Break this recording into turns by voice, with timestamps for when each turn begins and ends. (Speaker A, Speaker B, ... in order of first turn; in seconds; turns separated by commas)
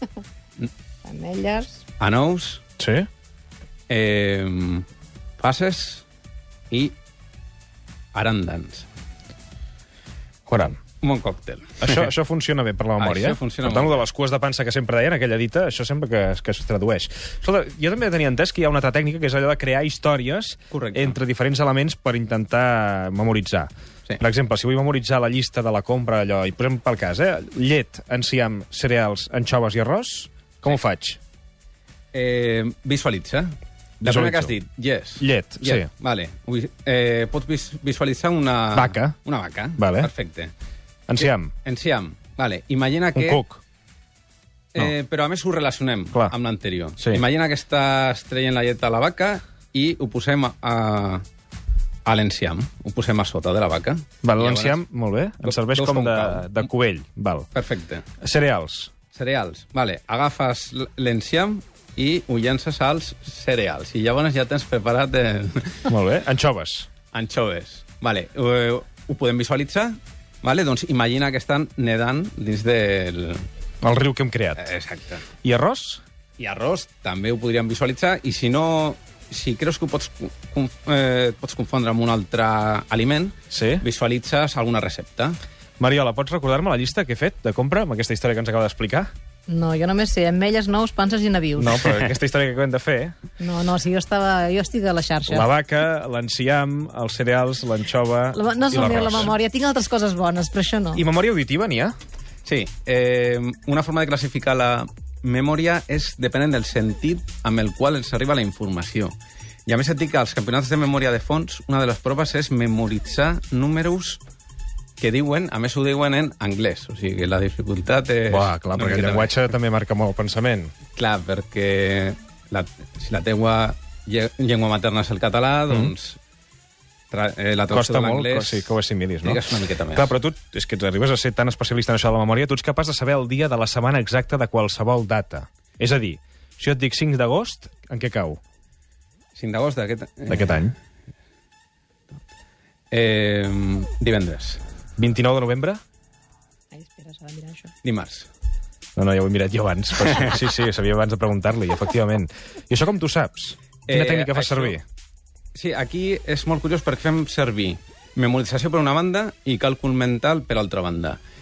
Speaker A: 1.1-1.8, Speaker B: 2.0-2.6, Speaker C: 2.8-3.1, Speaker B: 3.9-4.9, Speaker B: 5.4-6.1, Speaker B: 6.7-7.0, Speaker B: 8.1-8.9, Speaker C: 10.5-10.8, Speaker B: 10.9-12.1, Speaker C: 11.8-31.2, Speaker B: 13.0-14.1, Speaker B: 20.7-21.2, Speaker B: 32.1-40.5, Speaker C: 34.0-34.5, Speaker C: 35.2-35.9, Speaker C: 38.8-39.1, Speaker C: 39.8-40.1, Speaker C: 41.1-41.5, Speaker B: 41.2-43.4, Speaker C: 43.1-43.6, Speaker B: 44.7-51.2, Speaker B: 52.0-54.8, Speaker C: 54.2-57.5, Speaker B: 55.4-56.6, Speaker B: 57.5-58.1, Speaker C: 58.2-58.9, Speaker B: 59.1-65.9, Speaker C: 65.9-66.9, Speaker B: 67.1-73.4, Speaker C: 73.8-74.7, Speaker B: 74.6-75.3, Speaker C: 75.4-76.0, Speaker B: 76.4-85.4, Speaker C: 83.5-83.8, Speaker C: 85.8-89.1, Speaker A: 89.5-91.9, Speaker C: 91.6-93.2, Speaker A: 93.4-95.5, Speaker C: 95.2-99.3, Speaker A: 98.3-101.0, Speaker C: 101.0-101.9, Speaker B: 102.5-109.1, Speaker B: 109.7-114.2, Speaker B: 115.0-119.3, Speaker C: 118.3-120.7, Speaker B: 120.9-126.2, Speaker B: 127.1-130.1, Speaker C: 127.7-129.4, Speaker C: 129.9-138.4, Speaker B: 139.3-140.6, Speaker C: 140.3-140.8, Speaker B: 142.9-144.6, Speaker C: 145.0-145.8, Speaker A: 146.7-147.7, Speaker B: 147.8-148.3, Speaker C: 149.0-154.8, Speaker B: 153.9-154.8, Speaker B: 155.6-161.2